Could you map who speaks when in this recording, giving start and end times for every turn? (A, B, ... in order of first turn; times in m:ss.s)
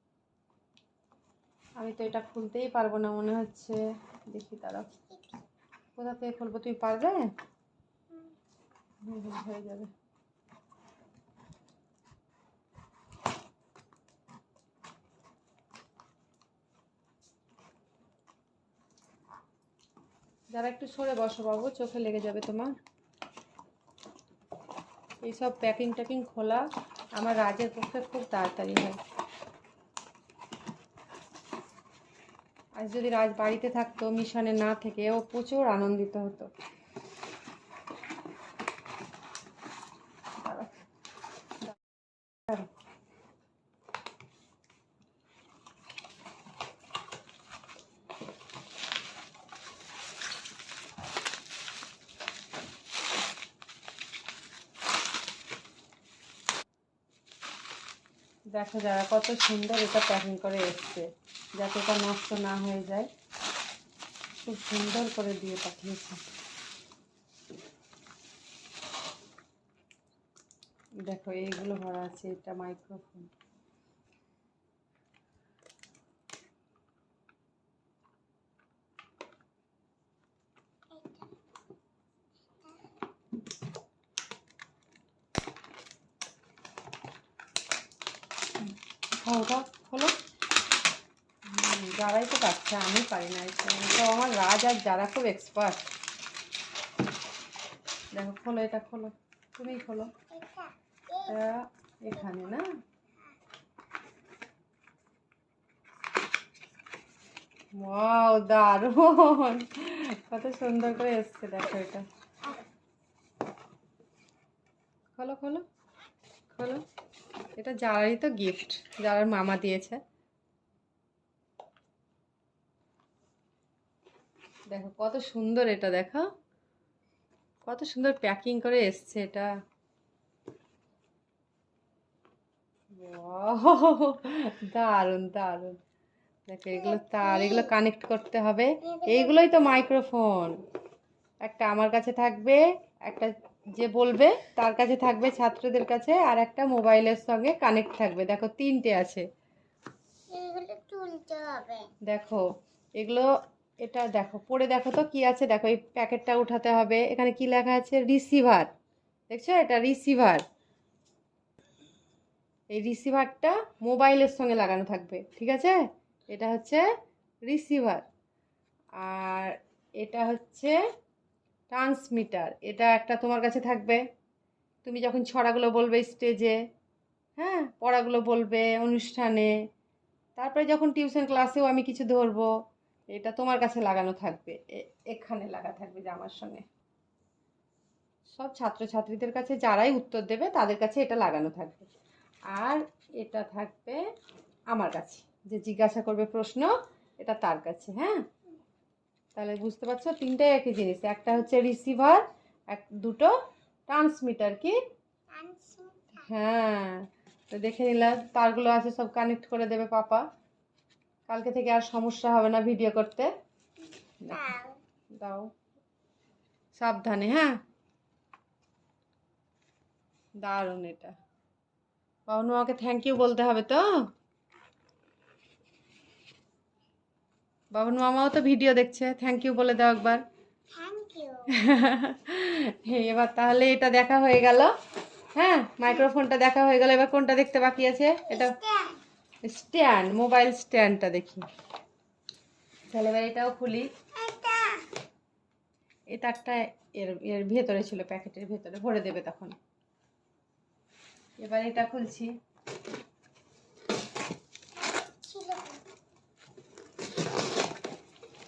0:01.8-0:04.9 A
0:05.1-0:05.4 B
0:06.0-0:07.3 A
0:09.0-0:09.9 A
0:20.5-0:22.7 A
0:25.2-0:26.6 A
0:27.2-0:29.0 A
0:32.8-0:36.5 A
0:40.4-0:40.7 A
0:58.5-1:01.1 A
1:01.6-1:03.1 A
1:04.4-1:06.2 A
1:11.0-1:13.3 A
1:20.9-1:21.3 B
1:22.5-1:22.8 B
1:29.2-1:30.1 A
1:31.5-1:35.8 A
1:38.1-1:40.1 A
1:40.1-1:41.3 B
1:41.2-1:42.6 A
1:47.8-1:52.0 A
1:55.2-1:55.6 A
1:56.5-1:56.8 A
1:57.6-2:00.0 A
2:04.7-2:06.3 A
2:07.6-2:09.5 A
2:12.9-2:15.8 A
2:16.5-2:20.5 A
2:16.8-2:17.7 B
2:18.8-2:19.3 B
2:21.4-2:29.2 A
2:30.3-2:31.9 B
2:32.0-2:32.4 A
2:33.0-2:33.3 A
2:33.8-2:38.7 A
2:39.3-2:40.4 A
2:42.7-2:45.8 A
2:46.3-2:46.8 A
2:47.5-2:48.0 A
2:49.0-2:50.8 A
2:51.7-2:54.0 A
2:54.8-2:56.6 A
2:57.4-2:59.5 A
3:00.4-3:02.5 A
3:03.1-3:06.6 A
3:08.3-3:11.9 A
3:12.5-3:14.0 A
3:14.7-3:18.2 A
3:19.3-3:23.3 A
3:23.9-3:24.8 A
3:25.3-3:26.2 B
3:26.2-3:30.2 A
3:31.3-3:33.3 A
3:34.2-3:34.5 A
3:34.3-3:34.8 B
3:35.2-3:35.5 A
3:36.7-3:37.5 A
3:40.4-3:41.1 A
3:42.3-3:43.9 A
3:47.7-3:50.2 A
3:50.7-3:51.5 B
3:51.5-3:54.7 A
3:55.3-3:58.6 A
3:58.3-3:59.0 B
3:59.4-4:01.4 A
4:02.9-4:03.9 A
4:04.1-4:04.9 B
4:06.1-4:09.5 A
4:11.4-4:12.3 A
4:14.8-4:15.8 B